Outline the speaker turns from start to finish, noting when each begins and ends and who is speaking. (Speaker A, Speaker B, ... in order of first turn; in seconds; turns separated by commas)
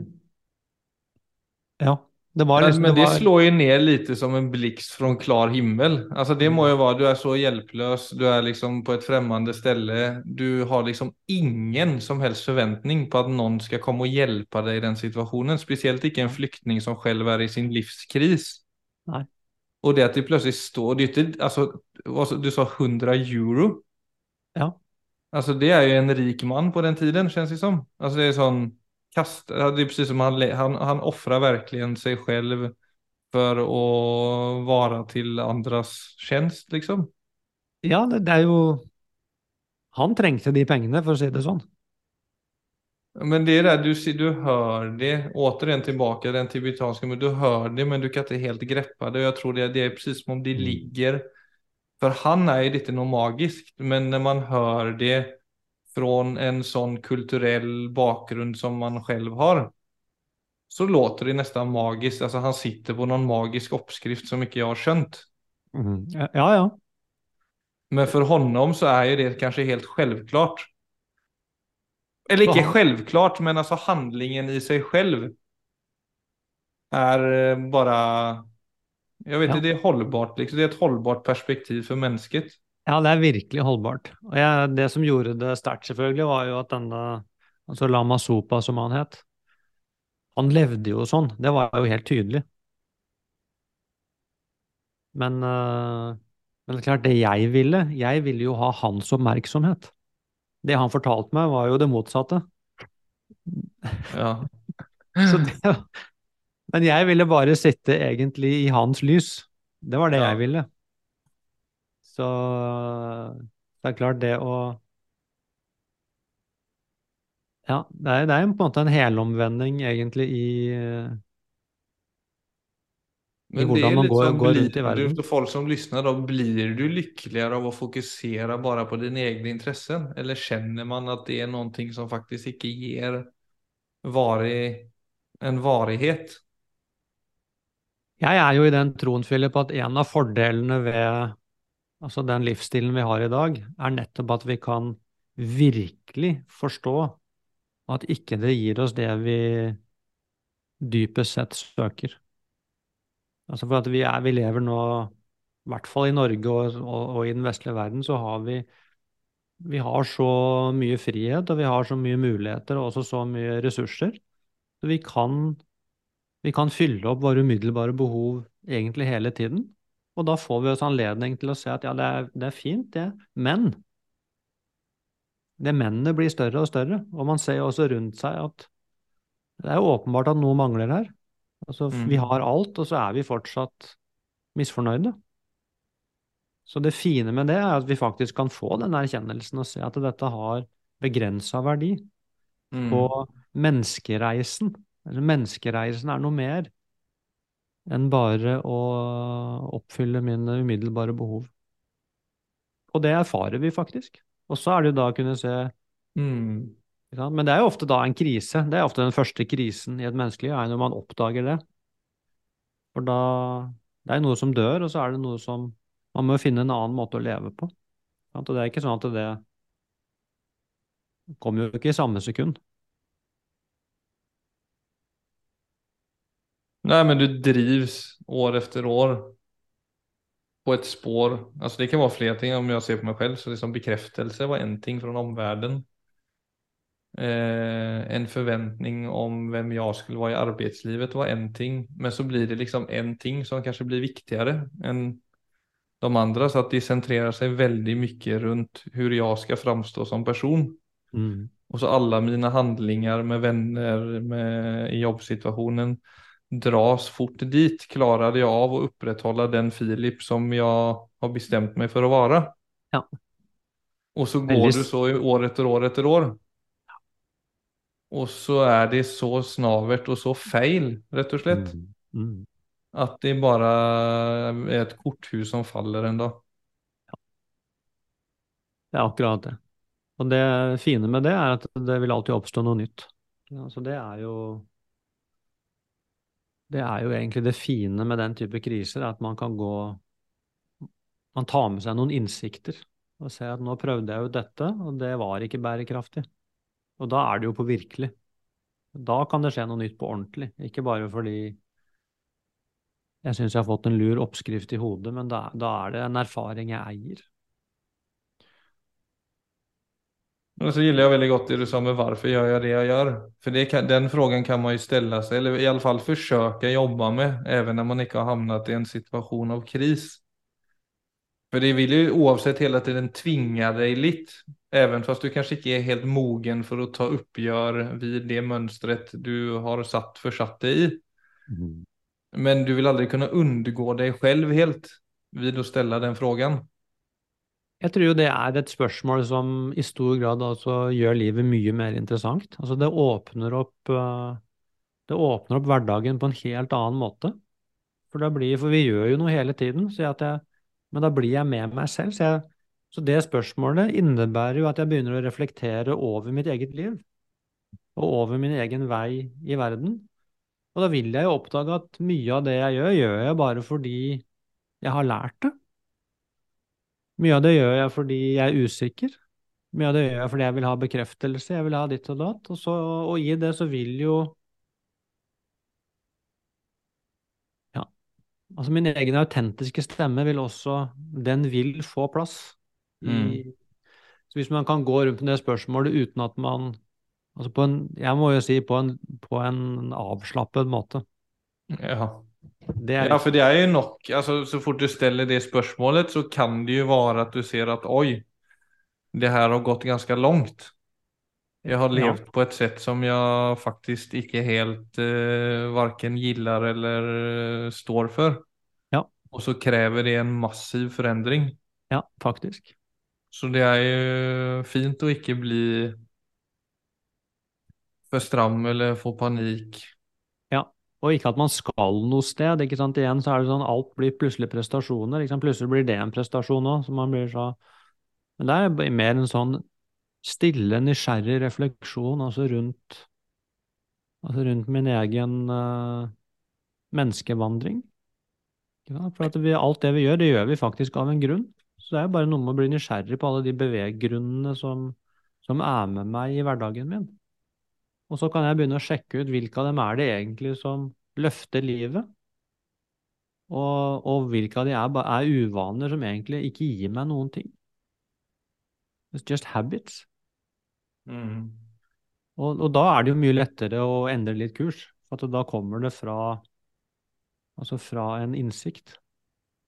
Speaker A: 1.8-3.3, Speaker B: 2.6-18.6, Speaker A: 6.4-6.7, Speaker B: 19.8-23.8, Speaker B: 25.3-32.7, Speaker B: 33.3-37.1, Speaker A: 37.8-38.9, Speaker A: 39.9-41.6, Speaker B: 43.1-51.2, Speaker A: 50.5-50.8, Speaker B: 52.0-55.4, Speaker B: 55.9-59.7, Speaker B: 60.7-65.3, Speaker A: 65.7-66.8, Speaker B: 67.9-70.7, Speaker B: 72.3-75.3, Speaker A: 72.4-72.7, Speaker B: 76.9-78.5, Speaker B: 79.2-82.6, Speaker A: 82.9-89.2, Speaker A: 90.3-92.4, Speaker A: 95.1-99.9, Speaker A: 100.6-102.4, Speaker A: 103.5-104.1, Speaker B: 104.1-104.5, Speaker B: 105.1-105.5, Speaker A: 105.2-106.0, Speaker A: 106.7-110.7, Speaker B: 110.1-110.4, Speaker A: 112.1-114.8, Speaker A: 117.7-121.2, Speaker B: 123.5-133.3, Speaker A: 123.6-125.2, Speaker B: 134.0-136.4, Speaker A: 138.2-141.3, Speaker A: 142.0-147.2, Speaker A: 147.9-149.8, Speaker A: 150.8-152.2, Speaker A: 153.5-155.1, Speaker A: 155.7-158.7, Speaker A: 159.6-164.2, Speaker A: 164.8-165.6, Speaker A: 166.4-173.8, Speaker A: 175.6-178.7, Speaker A: 179.6-181.1, Speaker A: 181.6-183.9, Speaker B: 181.9-182.3, Speaker A: 184.5-185.2, Speaker A: 186.7-192.1, Speaker B: 192.7-193.1, Speaker A: 192.9-196.7, Speaker A: 197.9-201.5, Speaker A: 202.9-205.7, Speaker B: 206.2-206.8, Speaker A: 207.1-211.6, Speaker A: 212.9-217.7, Speaker A: 218.3-219.4, Speaker A: 221.4-222.6, Speaker B: 226.8-229.3, Speaker B: 230.6-235.8, Speaker B: 237.1-245.2, Speaker B: 246.0-250.8, Speaker A: 251.1-251.5, Speaker B: 251.7-262.6, Speaker B: 264.1-266.4, Speaker A: 264.5-264.9, Speaker B: 268.1-271.8, Speaker A: 271.5-272.4, Speaker B: 272.9-276.4, Speaker A: 278.9-279.6, Speaker A: 280.2-284.6, Speaker A: 286.7-290.0, Speaker A: 291.3-296.3, Speaker A: 297.0-298.1, Speaker A: 298.9-301.6, Speaker A: 303.2-307.3, Speaker B: 310.6-320.2, Speaker B: 321.5-331.0, Speaker A: 331.5-331.9, Speaker B: 332.3-336.7, Speaker A: 337.8-344.4, Speaker A: 345.1-347.4, Speaker A: 348.1-357.0, Speaker A: 357.9-360.1, Speaker A: 360.7-364.2, Speaker A: 364.8-365.5, Speaker A: 367.2-369.2, Speaker A: 369.7-374.3, Speaker A: 378.5-383.5, Speaker B: 383.0-383.4, Speaker A: 384.3-386.8, Speaker A: 387.4-391.0, Speaker B: 391.7-392.3, Speaker A: 392.8-393.3, Speaker B: 393.0-398.2, Speaker B: 399.1-400.7, Speaker B: 401.6-408.4, Speaker A: 401.9-402.2, Speaker B: 409.3-411.6, Speaker A: 411.9-412.7, Speaker B: 413.3-416.0, Speaker B: 418.1-419.9, Speaker A: 420.5-427.6, Speaker A: 428.4-429.6, Speaker A: 430.2-433.1, Speaker A: 434.2-436.1, Speaker A: 436.9-437.9, Speaker A: 438.9-447.1, Speaker A: 448.1-452.1, Speaker A: 453.5-457.5, Speaker A: 459.1-460.1, Speaker B: 461.1-461.6, Speaker A: 462.4-466.4, Speaker A: 467.6-469.0